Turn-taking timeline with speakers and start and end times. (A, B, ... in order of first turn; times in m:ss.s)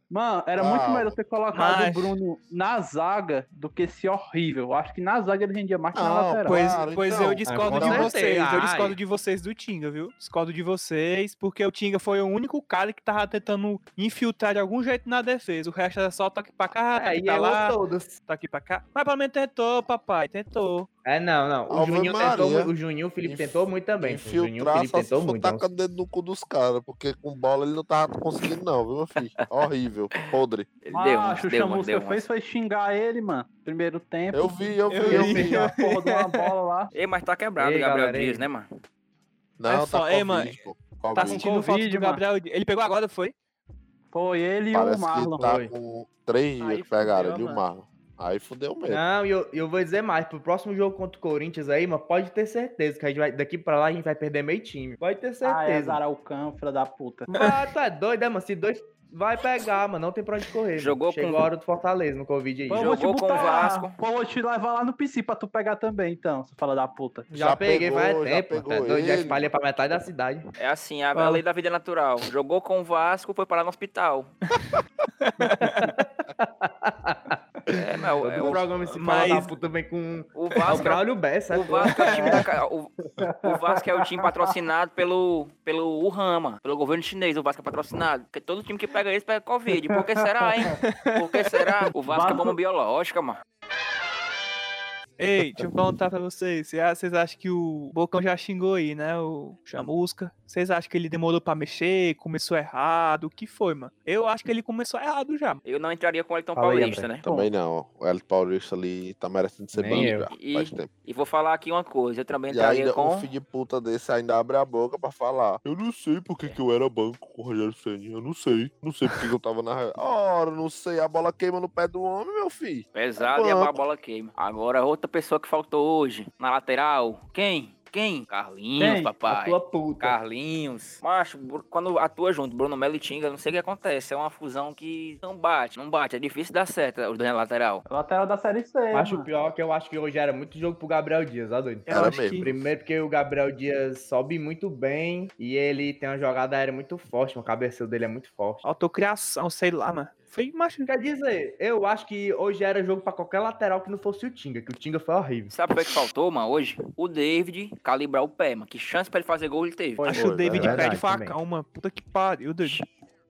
0:00.1-0:06.6 A
0:00.6-0:01.2 B
0:01.5-0:02.2 C
0:05.9-0:08.1 B
0:06.5-0:20.9 C
0:07.5-0:09.0 D
0:17.0-0:18.2 D
0:21.0-0:25.6 D
0:21.7-0:22.7 B
0:23.3-0:30.7 B
0:30.1-0:32.2 E
0:30.9-0:36.9 A
0:34.3-0:35.7 B
0:34.9-0:36.5 C
0:36.9-0:38.7 E
0:37.6-0:38.4 D
0:39.6-0:41.5 B
0:39.7-0:40.6 C
0:41.2-0:43.3 C
0:41.2-0:42.2 A
0:44.1-0:45.4 A
0:44.7-0:49.0 B
0:45.4-0:45.7 D
0:46.6-0:47.6 D
0:48.9-0:56.0 D
0:55.4-0:57.5 A
0:57.4-1:03.0 D
1:00.8-1:01.5 E
1:02.7-1:07.3 A
1:02.8-1:04.0 E
1:07.3-1:09.5 B
1:07.3-1:10.5 D
1:10.6-1:14.3 E
1:11.2-1:11.4 C
1:15.2-1:15.9 C
1:16.8-1:17.4 D
1:17.7-1:18.7 E
1:18.2-1:22.4 D
1:18.9-1:19.5 C
1:20.4-1:22.9 E
1:21.8-1:22.4 A
1:23.2-1:24.4 A
1:23.4-1:33.4 E
1:29.7-1:30.7 A
1:30.8-1:31.9 C
1:32.1-1:32.6 A
1:35.2-1:45.6 C
1:45.6-1:47.3 E
1:46.6-1:47.1 D
1:46.9-1:47.5 A
1:47.3-1:50.9 B
1:49.8-1:50.3 D
1:50.3-1:53.3 E
1:52.5-2:03.8 B
2:02.9-2:17.8 E
2:08.8-2:09.1 A
2:09.3-2:10.2 D
2:17.9-2:19.3 A
2:18.9-2:28.6 D
2:21.9-2:22.5 C
2:21.9-2:22.6 B
2:28.6-2:30.9 C
2:30.9-2:35.6 D
2:35.5-2:40.2 E
2:40.0-2:40.8 A
2:40.0-2:42.8 C
2:40.1-2:40.9 B
2:40.5-2:41.4 D